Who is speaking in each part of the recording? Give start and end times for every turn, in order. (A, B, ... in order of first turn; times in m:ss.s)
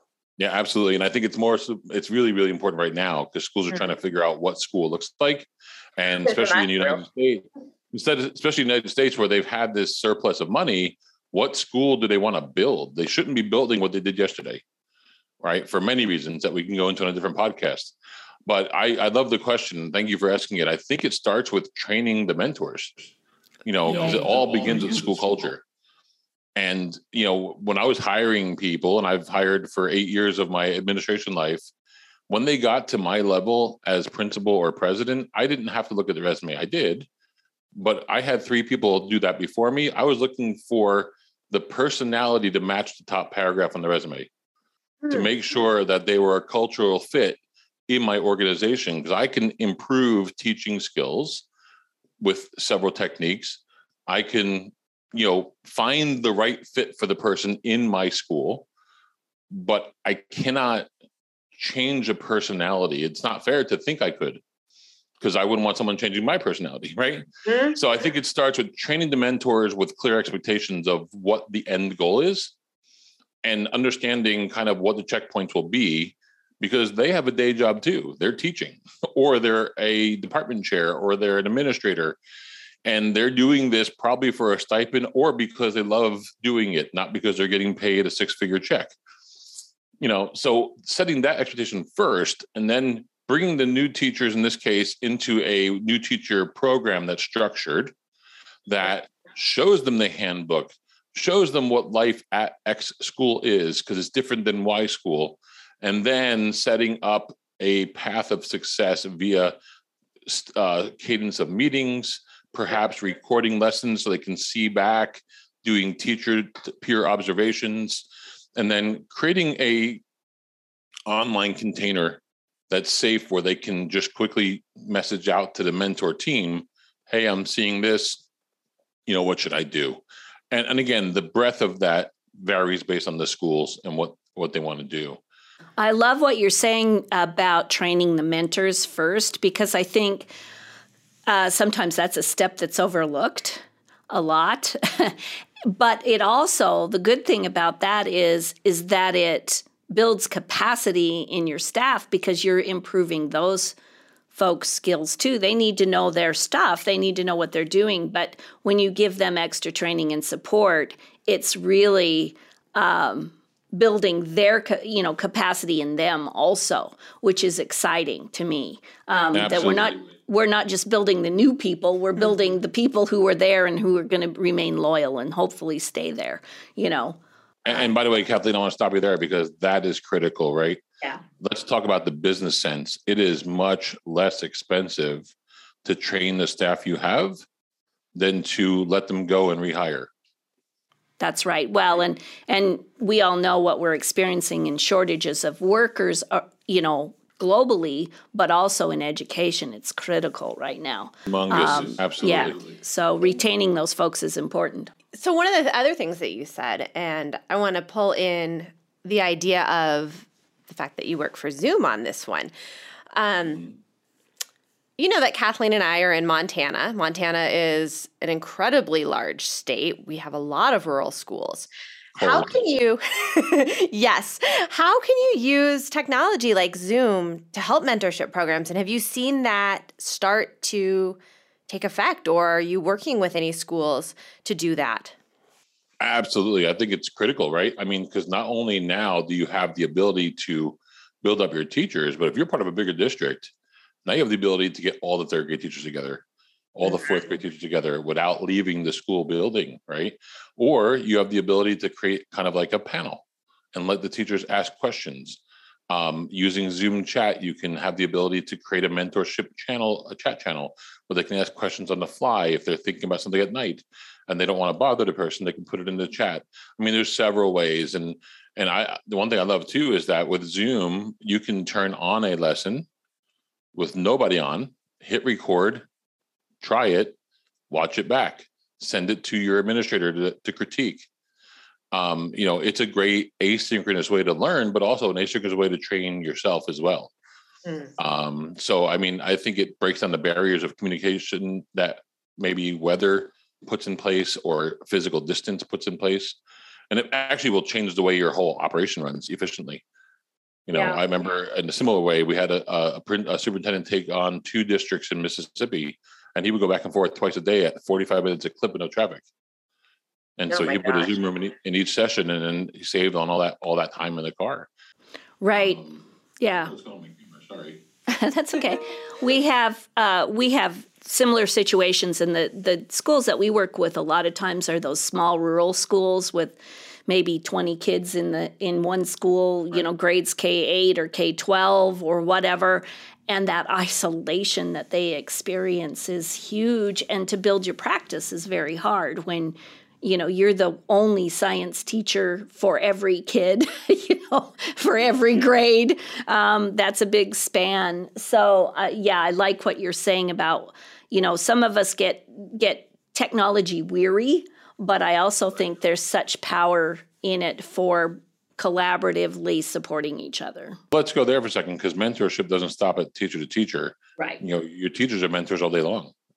0:00.4-0:14.6 A
0:06.3-0:07.0 B
0:15.4-0:17.9 A
0:18.5-0:23.0 A
0:23.6-0:25.6 A
0:23.9-0:25.0 C
0:26.6-0:31.7 A
0:32.3-0:37.1 A
0:37.8-0:44.3 A
0:45.1-0:51.4 A
0:52.2-0:58.6 A
0:59.5-1:00.9 A
1:01.6-1:04.4 A
1:05.2-1:12.5 A
1:07.5-1:07.8 B
1:13.4-1:22.2 A
1:22.8-1:28.9 A
1:30.0-1:37.9 A
1:38.7-1:49.6 A
1:50.3-2:00.0 A
2:01.1-2:08.2 A
2:09.1-2:15.2 A
2:15.8-2:20.3 C
2:21.3-2:33.8 C
2:34.3-2:57.2 C
2:49.3-2:50.0 A
2:57.6-3:00.8 A
3:01.4-3:05.3 A
3:05.8-3:07.4 A
3:08.2-3:10.1 A
3:11.2-3:24.9 C
3:21.3-3:22.6 A
3:25.1-3:32.5 B
3:33.1-3:33.7 B
3:35.0-3:55.2 B
3:42.2-3:42.7 A
3:56.0-4:03.5 A
4:04.0-4:06.2 A
4:06.8-4:32.9 A
4:33.7-4:35.9 A
4:36.6-4:37.2 A
4:37.7-4:41.1 A
4:41.9-4:47.1 A
4:47.7-4:47.9 B
4:48.0-4:56.4 A
4:56.9-4:59.8 A
5:00.7-5:09.2 A
5:10.4-5:14.7 A
5:10.5-5:11.1 B
5:15.4-5:15.8 C
5:15.6-5:17.8 A
5:16.4-5:16.7 C
5:18.1-6:00.8 C
6:00.9-6:06.1 A